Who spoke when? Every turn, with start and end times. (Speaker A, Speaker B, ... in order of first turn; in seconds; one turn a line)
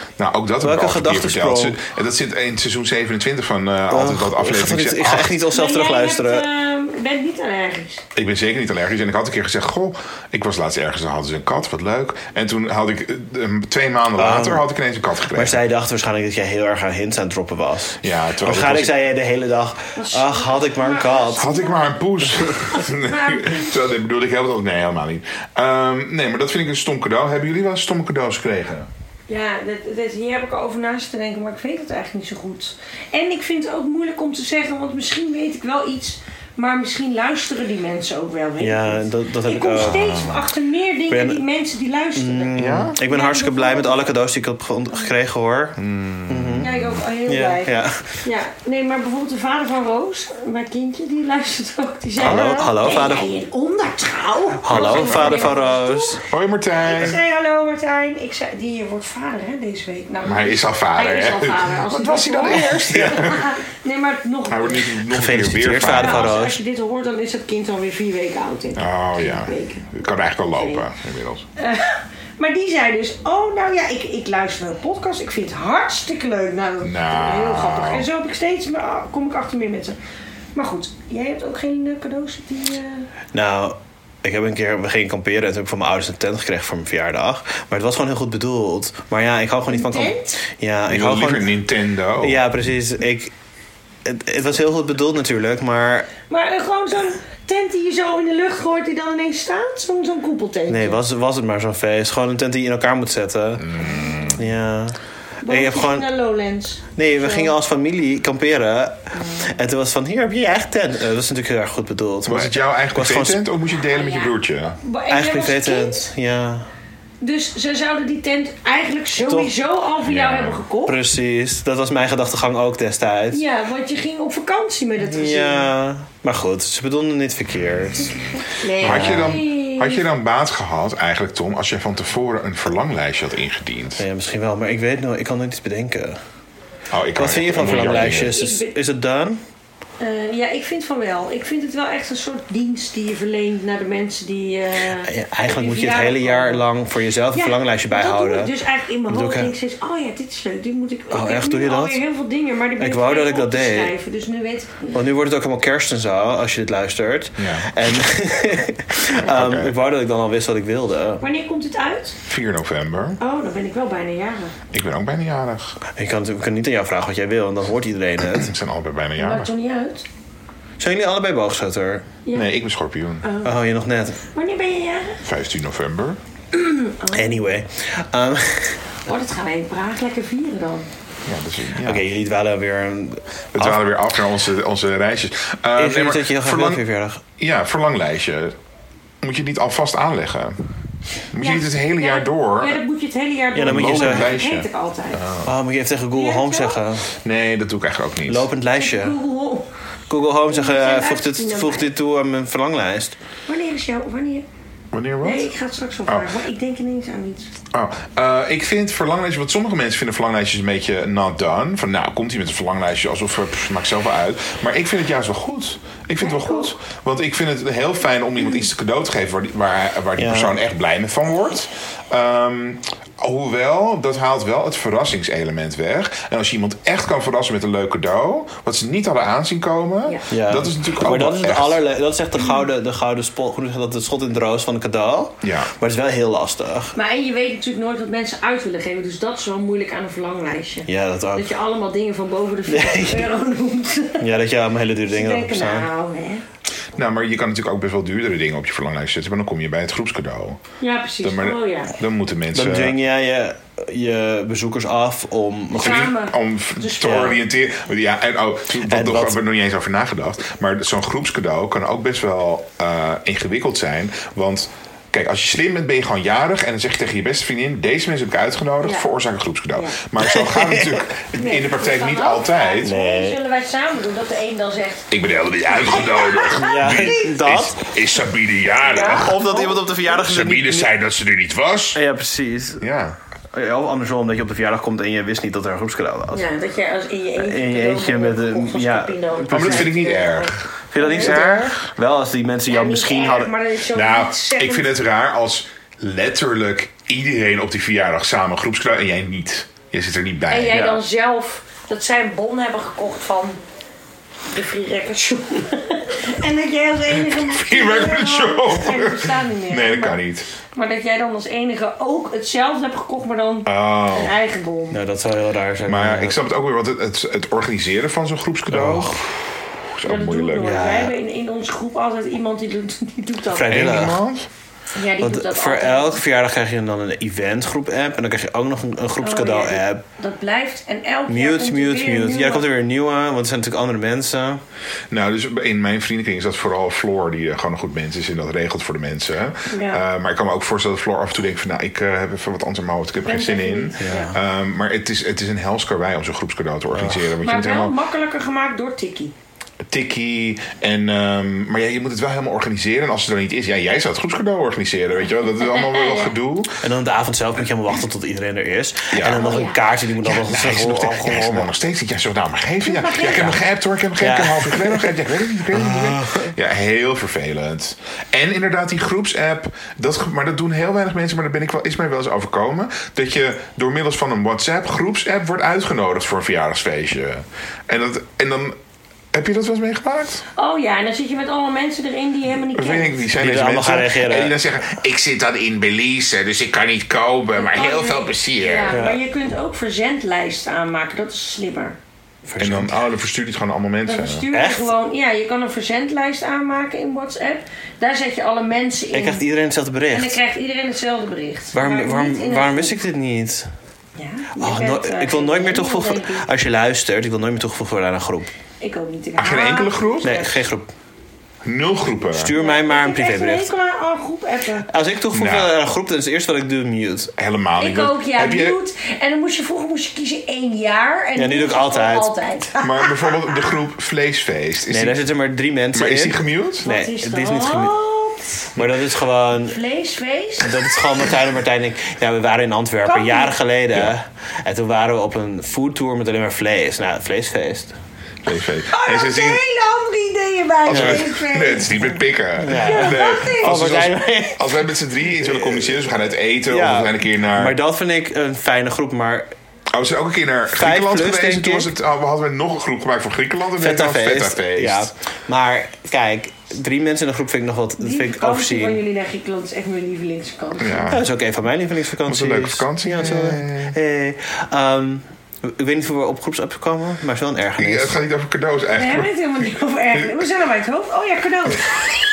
Speaker A: 0.2-5.3
Speaker B: 0.6-1.8
Speaker B: 3.9-6.5
Speaker C: 5.5-8.0
Speaker A: 8.1-15.6
Speaker B: 14.2-14.7
Speaker B: 15.3-21.5
Speaker A: 18.0-18.9
Speaker C: 19.9-22.0
Speaker A: 21.4-28.9
Speaker C: 22.7-23.8
Speaker C: 29.3-44.1
Speaker B: 38.6-40.3
Speaker A: 39.9-40.4
Speaker B: 41.1-41.4
Speaker B: 42.1-46.7
Speaker A: 42.5-43.0
Speaker A: 45.8-47.0
Speaker C: 46.6-56.2
Speaker B: 47.3-48.2
Speaker B: 52.2-53.2
Speaker A: 52.2-52.6
Speaker B: 54.6-56.2
Speaker A: 54.7-55.6
Speaker A: 56.3-57.2
Speaker C: 56.8-64.9
Speaker A: 60.2-63.5
Speaker B: 62.5-63.4
Speaker A: 64.5-66.3
Speaker B: 65.1-66.6
Speaker C: 65.9-69.9
Speaker A: 68.8-71.5
Speaker C: 70.5-70.8
Speaker C: 71.6-80.0
Speaker A: 76.8-78.1
Speaker C: 80.5-83.1
Speaker B: 83.3-91.6
Speaker C: 89.7-90.4
Speaker A: 90.9-92.4
Speaker B: 92.2-93.3
Speaker B: 94.0-96.1
Speaker C: 96.3-101.0
Speaker B: 100.7-106.1
Speaker A: 103.6-104.4
Speaker C: 103.8-104.3
Speaker C: 105.4-107.5
Speaker B: 107.0-113.4
Speaker C: 109.1-109.5
Speaker A: 112.2-114.8
Speaker C: 113.9-116.1
Speaker B: 115.1-116.7
Speaker C: 117.2-121.0
Speaker B: 119.2-119.5
Speaker A: 120.0-120.6
Speaker B: 120.8-123.4
Speaker C: 123.3-125.7
Speaker B: 125.0-128.2
Speaker C: 128.0-130.0
Speaker A: 128.8-134.0
Speaker B: 128.8-129.4
Speaker B: 134.0-136.2
Speaker A: 136.9-138.3
Speaker B: 137.1-139.4
Speaker C: 137.8-138.7
Speaker C: 140.0-146.7
Speaker B: 144.9-148.5
Speaker C: 147.3-155.0
Speaker B: 149.1-149.5
Speaker B: 151.1-152.0
Speaker B: 152.8-153.9
Speaker B: 154.9-161.2
Speaker A: 157.4-157.7
Speaker A: 159.2-159.7
Speaker C: 161.2-162.2
Speaker A: 162.3-163.2
Speaker C: 163.2-164.5
Speaker A: 164.7-165.8
Speaker B: 165.9-168.5
Speaker A: 168.3-169.5
Speaker C: 169.2-170.1
Speaker B: 170.8-172.1
Speaker C: 172.2-172.5
Speaker A: 172.3-173.2
Speaker C: 173.2-173.6
Speaker B: 173.4-174.2
Speaker C: 174.3-175.2
Speaker A: 175.2-176.2
Speaker C: 176.5-177.6
Speaker B: 177.1-178.9
Speaker C: 179.1-180.9
Speaker A: 181.2-182.0
Speaker B: 181.8-184.0
Speaker A: 183.5-186.8
Speaker B: 185.8-187.2
Speaker A: 187.4-188.6
Speaker A: 189.2-190.6
Speaker A: 191.3-192.8
Speaker C: 191.4-195.2
Speaker B: 193.5-194.3
Speaker A: 193.6-195.5
Speaker B: 195.4-197.1
Speaker C: 196.1-196.8
Speaker A: 197.2-198.5
Speaker B: 198.3-199.2
Speaker C: 198.7-199.7
Speaker B: 200.1-203.1
Speaker C: 200.5-201.9
Speaker C: 203.5-204.4
Speaker A: 204.9-205.5
Speaker C: 205.2-207.5
Speaker A: 207.7-231.8
Speaker C: 216.2-216.7
Speaker B: 220.2-220.6
Speaker B: 230.3-236.9
Speaker A: 235.4-235.7
Speaker C: 236.9-244.2
Speaker B: 240.9-241.5
Speaker B: 242.7-243.3
Speaker B: 244.2-245.9
Speaker C: 245.1-246.4
Speaker A: 246.9-250.6
Speaker C: 250.8-251.9
Speaker A: 251.2-252.9
Speaker B: 252.5-256.1
Speaker C: 255.7-257.4
Speaker A: 255.8-272.9
Speaker B: 257.0-257.4
Speaker B: 258.8-259.4
Speaker C: 268.8-269.1
Speaker B: 270.2-271.1
Speaker C: 271.3-275.1
Speaker B: 272.8-273.4
Speaker A: 275.1-279.4
Speaker C: 275.6-277.4
Speaker B: 276.6-277.9
Speaker C: 278.8-280.0
Speaker B: 279.0-280.9
Speaker A: 280.1-282.0
Speaker B: 281.9-282.9
Speaker A: 282.8-283.2
Speaker B: 283.5-286.5
Speaker C: 286.3-291.4
Speaker B: 287.4-290.0
Speaker A: 289.5-291.8
Speaker B: 290.9-293.5
Speaker C: 292.7-294.9
Speaker A: 293.9-300.8
Speaker C: 300.5-303.6
Speaker B: 300.7-301.0
Speaker C: 304.5-310.2
Speaker A: 307.1-310.5
Speaker C: 310.7-315.0
Speaker A: 313.6-314.3
Speaker B: 314.9-316.4
Speaker A: 315.9-320.9
Speaker B: 318.7-319.2
Speaker C: 320.0-323.8
Speaker B: 320.6-321.1
Speaker B: 323.5-324.2
Speaker A: 323.7-324.5
Speaker C: 324.9-326.2
Speaker B: 325.2-330.0
Speaker C: 329.2-332.7
Speaker B: 331.3-334.6
Speaker A: 335.1-347.9
Speaker C: 339.7-340.0
Speaker C: 343.2-344.3
Speaker B: 344.0-344.3
Speaker B: 346.9-347.3
Speaker C: 347.4-349.3
Speaker A: 349.8-356.8
Speaker C: 355.6-356.3
Speaker B: 356.8-361.7
Speaker A: 359.1-359.5
Speaker C: 359.3-359.8
Speaker A: 360.2-378.8
Speaker C: 362.8-363.6
Speaker B: 364.2-366.5
Speaker A: 379.3-380.4
Speaker C: 380.6-383.2
Speaker A: 382.7-389.0
Speaker B: 383.4-384.6
Speaker C: 387.6-392.0
Speaker B: 388.9-389.2
Speaker B: 392.4-392.9
Speaker A: 392.6-394.5
Speaker C: 394.0-399.4
Speaker B: 394.5-394.9
Speaker B: 399.1-400.4
Speaker C: 400.1-402.9
Speaker B: 401.7-403.7
Speaker C: 404.2-406.5
Speaker B: 404.6-408.5
Speaker C: 408.8-410.6
Speaker A: 409.4-410.4
Speaker B: 410.2-410.9
Speaker A: 411.6-412.5
Speaker B: 412.3-413.7
Speaker C: 412.5-414.9
Speaker B: 414.9-417.3
Speaker A: 415.3-415.7
Speaker A: 417.4-418.8
Speaker C: 417.8-423.7
Speaker B: 421.4-422.3
Speaker A: 422.8-425.2
Speaker B: 424.9-427.9
Speaker A: 425.9-426.9
Speaker C: 426.8-428.6
Speaker B: 428.8-429.8
Speaker C: 429.6-430.9
Speaker B: 430.6-437.9
Speaker C: 433.0-433.5
Speaker A: 438.4-439.6
Speaker C: 438.9-442.0
Speaker A: 440.8-447.8
Speaker B: 440.9-441.3
Speaker B: 442.6-444.8
Speaker C: 442.7-443.9
Speaker B: 445.4-446.1
Speaker B: 446.7-449.5
Speaker A: 449.9-455.1
Speaker B: 450.7-451.9
Speaker B: 453.8-459.0
Speaker C: 458.0-461.1
Speaker A: 460.8-461.2
Speaker B: 461.1-468.1
Speaker A: 462.2-463.9
Speaker A: 467.8-469.3
Speaker C: 468.9-472.1